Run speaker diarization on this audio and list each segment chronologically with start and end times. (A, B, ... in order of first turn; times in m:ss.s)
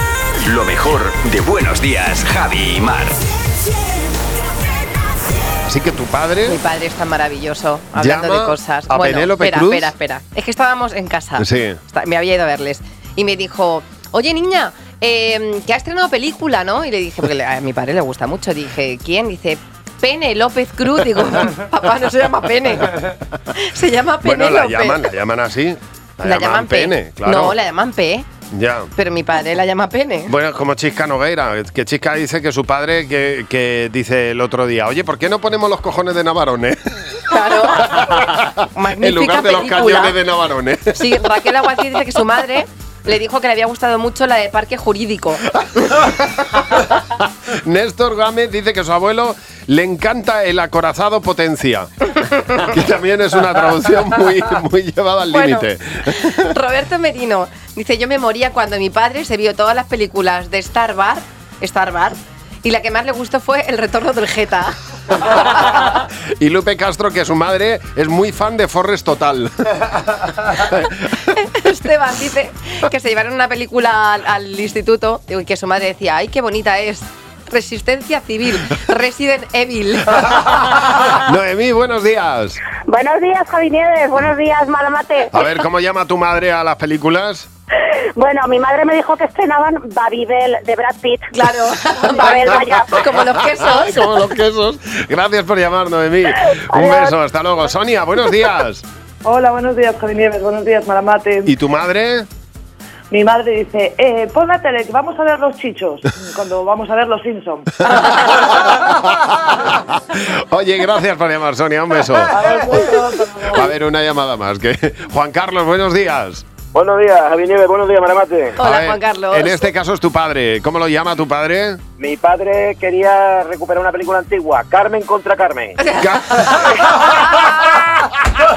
0:00.4-0:03.2 A
0:05.6-0:06.6 B
0:06.4-0:25.1 C
0:08.0-0:09.9 B
0:11.4-0:11.8 B
0:24.2-0:27.6 B
0:26.2-0:28.3 C
0:28.5-0:28.9 B
0:29.0-0:30.3 C
0:30.3-0:41.3 B
0:37.3-0:40.2 C
0:40.9-0:45.5 C
0:45.7-0:56.5 B
0:55.3-1:05.8 C
1:05.4-1:09.9 B
1:10.6-1:10.9 B
1:11.3-1:20.9 C
1:21.1-1:22.6 B
1:22.9-1:25.3 D
1:25.3-1:27.5 B
1:28.2-1:31.2 D
1:31.3-1:34.2 C
1:33.1-1:38.8 B
1:39.2-1:41.5 E
1:41.4-1:42.3 B
1:43.1-1:47.9 E
1:47.9-1:52.8 B
1:52.3-1:53.7 E
1:53.5-1:56.4 B
1:56.7-1:58.6 F
1:58.6-1:59.7 C
1:58.6-2:01.8 B
2:02.0-2:05.8 F
2:05.9-2:07.9 B